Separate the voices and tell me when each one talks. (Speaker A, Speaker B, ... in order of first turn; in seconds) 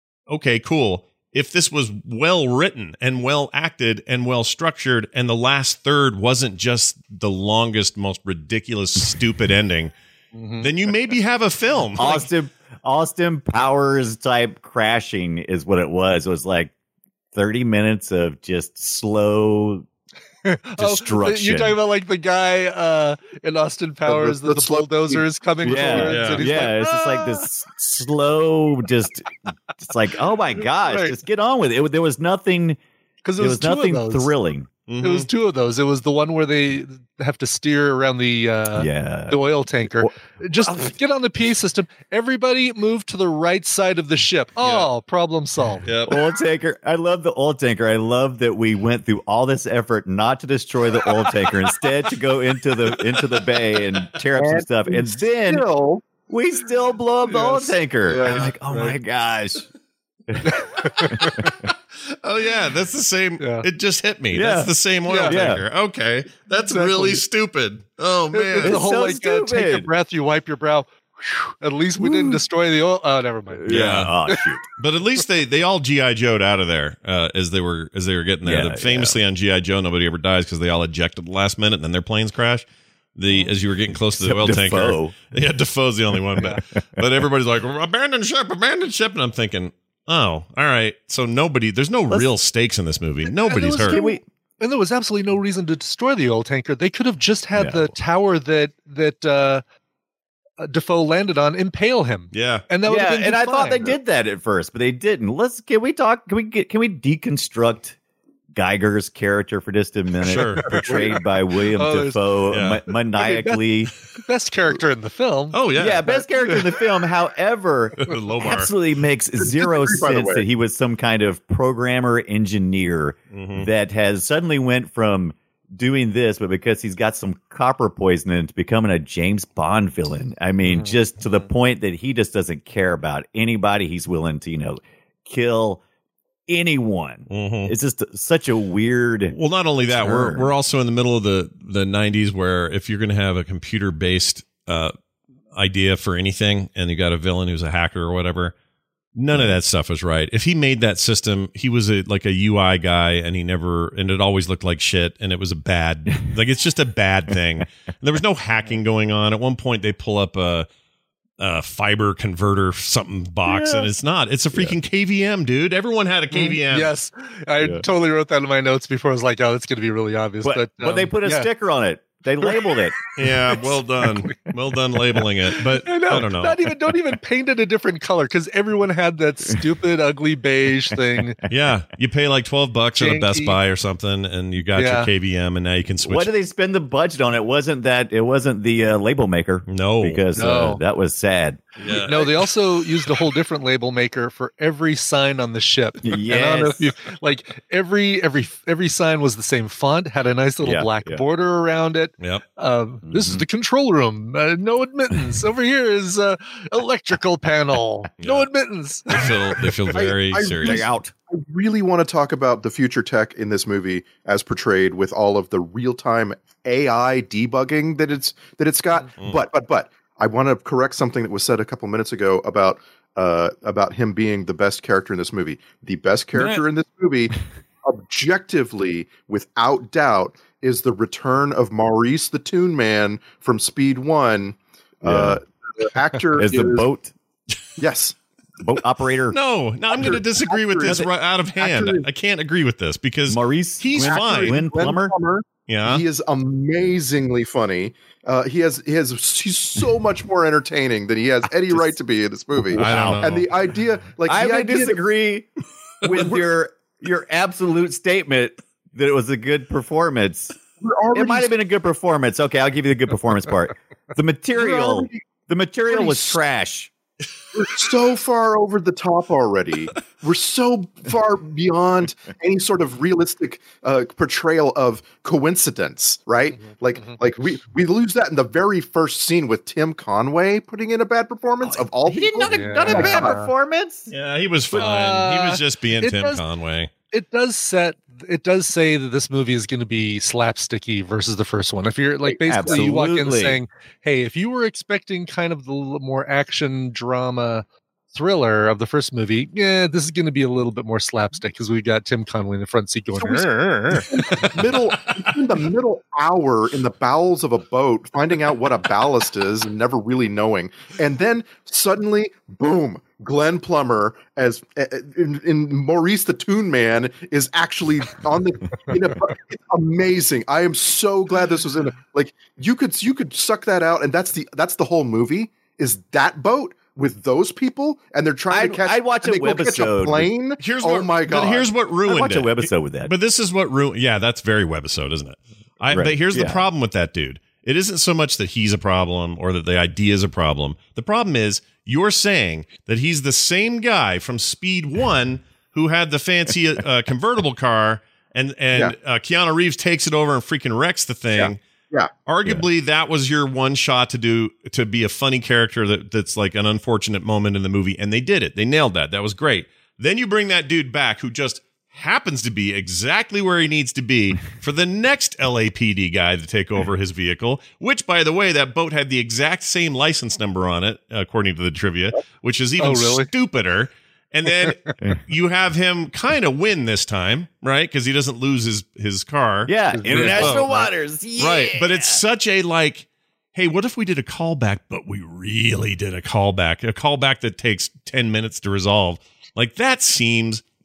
Speaker A: 0.3-9.9, 10.6-12.3, 26.0-26.4, 34.9-35.3, 44.6-44.9, 45.8-46.2, 62.2-68.8, 73.7-74.1, 74.8-94.0, 102.3-102.6, 110.2-110.8, 112.5-112.8, 115.5-116.1, 118.0-118.7, 123.3-123.7, 137.3-137.7, 139.3-144.9, 145.5-148.5, 149.1-160.7, 161.4-166.9, 173.2-176.6, 181.5-186.3, 189.7-190.2, 191.8-192.3, 208.2-208.5, 209.1-210.8, 239.3-244.6, 245.7-246.0, 252.7-253.4, 284.1-286.9, 330.6-351.6, 352.2-380.8, 381.4-390.6
Speaker B: 10.3-10.7, 20.4-27.5, 30.8-31.1, 33.2-34.3, 35.0-45.9, 57.2-58.9, 60.4-61.5, 63.4-63.7, 65.1-65.4, 66.7-67.2, 68.3-74.4, 93.2-99.6, 100.6-103.9, 110.7-111.1, 111.7-112.2, 113.2-115.7, 166.3-171.5, 173.2-174.5, 175.2-181.4, 183.0-183.6, 184.7-185.1, 190.3-190.8, 191.9-209.7, 282.5-283.5, 284.7-286.4, 287.1-304.7, 372.8-373.3, 374.5-374.9, 379.9-380.9
Speaker C: 12.0-16.7, 17.3-19.9, 20.8-21.8, 25.6-29.3, 29.8-32.8, 33.4-34.7, 38.7-39.4, 46.1-55.6, 56.3-59.6, 60.3-60.5, 61.1-61.5, 64.3-64.7, 65.2-65.6, 68.6-69.9, 72.0-72.4, 73.5-74.6, 78.4-79.2, 84.0-85.2, 93.9-94.2, 97.5-97.9, 102.8-108.0, 108.5-113.9, 115.8-135.8, 136.5-139.3, 139.9-140.5, 163.4-163.9, 167.6-167.8, 170.4-173.0, 186.0-191.6, 196.0-196.9, 200.6-201.2, 203.1-203.4, 210.6-211.1, 235.0-235.4, 236.4-237.1, 238.6-239.3, 243.3-245.1, 252.6-253.3, 254.2-255.5, 256.0-260.5, 261.1-266.9, 281.6-284.1, 292.2-293.6, 328.5-330.3, 332.1-333.1, 335.9-336.6, 379.7-382.2
Speaker D: 24.1-26.1, 54.4-56.0, 119.4-120.4, 209.9-236.9, 237.8-238.2, 239.9-241.1, 241.6-242.0, 244.0-255.0, 260.8-261.5, 264.6-265.2, 265.9-266.4, 267.5-283.4, 303.2-331.7, 351.4-352.1